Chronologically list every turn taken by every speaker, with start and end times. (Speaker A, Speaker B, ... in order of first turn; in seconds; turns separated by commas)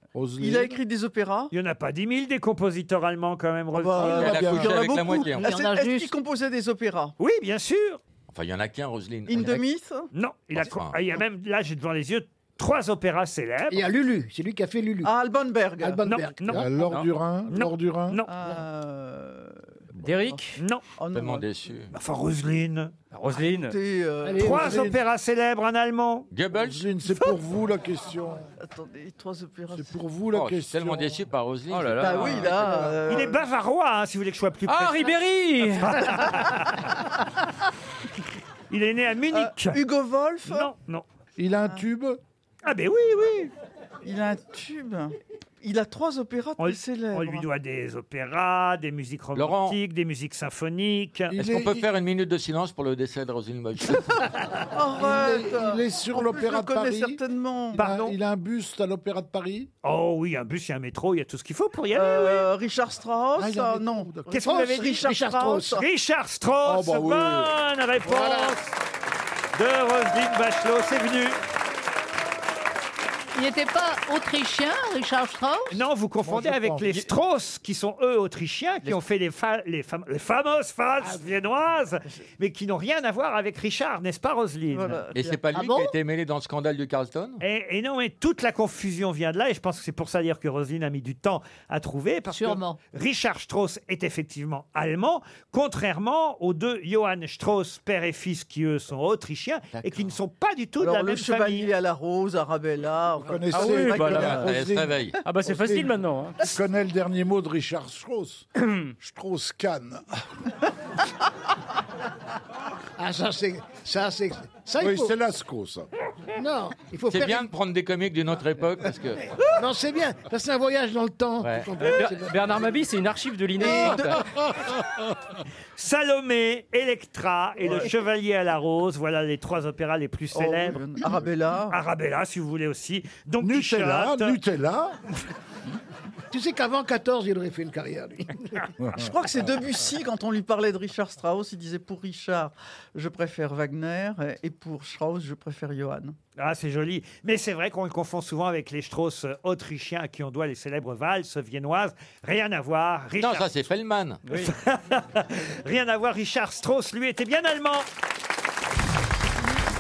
Speaker A: 0.1-0.8, Speaker B: 0.4-1.5, Speaker C: 1.5-4.2, Speaker B: 3.7-7.1, Speaker A: 4.0-4.8, Speaker D: 4.1-5.6, Speaker E: 5.4-6.1, Speaker C: 7.2-8.0, Speaker D: 8.3-9.6, Speaker B: 9.3-10.1, Speaker C: 10.1-13.8, Speaker D: 10.5-11.0, Speaker F: 13.7-15.1, Speaker B: 15.0-16.2, Speaker F: 15.8-16.9, Speaker C: 16.1-16.6, Speaker A: 16.5-18.2, Speaker G: 16.9-17.1, Speaker C: 17.5-18.3, Speaker B: 18.2-19.7, Speaker G: 20.0-20.6, Speaker C: 20.6-20.8, Speaker B: 21.0-21.5, Speaker D: 21.1-21.9, Speaker C: 21.9-22.9, Speaker G: 23.1-23.8, Speaker B: 23.4-24.9, Speaker F: 24.2-24.9, Speaker C: 24.4-26.3, Speaker A: 24.5-25.0, Speaker D: 26.3-26.9, Speaker A: 26.5-28.5, Speaker B: 28.6-29.9, Speaker A: 29.7-31.2, Speaker D: 30.3-32.9, Speaker G: 31.7-32.9, Speaker B: 32.0-33.5, Speaker C: 33.1-36.9, Speaker G: 34.7-36.2, Speaker C: 38.7-39.8, Speaker B: 39.3-40.7, Speaker C: 40.5-41.0, Speaker A: 41.4-42.2, Speaker C: 42.6-43.5, Speaker B: 44.0-47.5, Speaker C: 46.6-51.4, Speaker D: 49.4-49.8, Speaker A: 51.3-51.9, Speaker D: 51.4-54.2, Speaker B: 54.7-58.0, Speaker A: 55.0-57.2, Speaker A: 57.8-59.7, Speaker C: 57.8-58.1, Speaker C: 59.8-62.5, Speaker B: 61.9-65.8, Speaker A: 63.4-64.4, Speaker C: 64.3-65.1, Speaker F: 64.4-65.8, Speaker C: 65.7-68.6, Speaker A: 66.7-67.5, Speaker F: 68.1-68.6, Speaker A: 68.1-68.5, Speaker C: 69.5-71.4, Speaker E: 73.3-75.8, Speaker C: 75.7-85.0, Speaker A: 76.2-77.1, Speaker B: 84.7-85.4, Speaker D: 85.1-87.4, Speaker E: 85.5-85.9, Speaker C: 87.4-101.7, Speaker E: 92.3-92.8, Speaker B: 100.8-104.5, Speaker A: 103.2-108.5, Speaker G: 103.5-104.5, Speaker D: 104.0-105.2, Speaker G: 105.2-106.4, Speaker G: 108.6-108.9, Speaker A: 109.0-110.3, Speaker F: 113.0-115.1, Speaker A: 114.8-115.9, Speaker F: 116.4-117.5, Speaker D: 117.1-119.3, Speaker F: 119.5-122.6, Speaker D: 121.4-121.7, Speaker G: 121.8-124.2, Speaker B: 123.6-124.2, Speaker A: 123.6-125.1, Speaker C: 125.8-130.8, Speaker B: 130.3-131.8, Speaker C: 131.7-134.4, Speaker A: 133.4-135.0, Speaker F: 136.3-138.6, Speaker A: 138.8-139.2, Speaker B: 139.0-146.2, Speaker C: 146.4-153.5, Speaker D: 153.2-154.2, Speaker G: 154.2-154.5, Speaker C: 154.3-157.9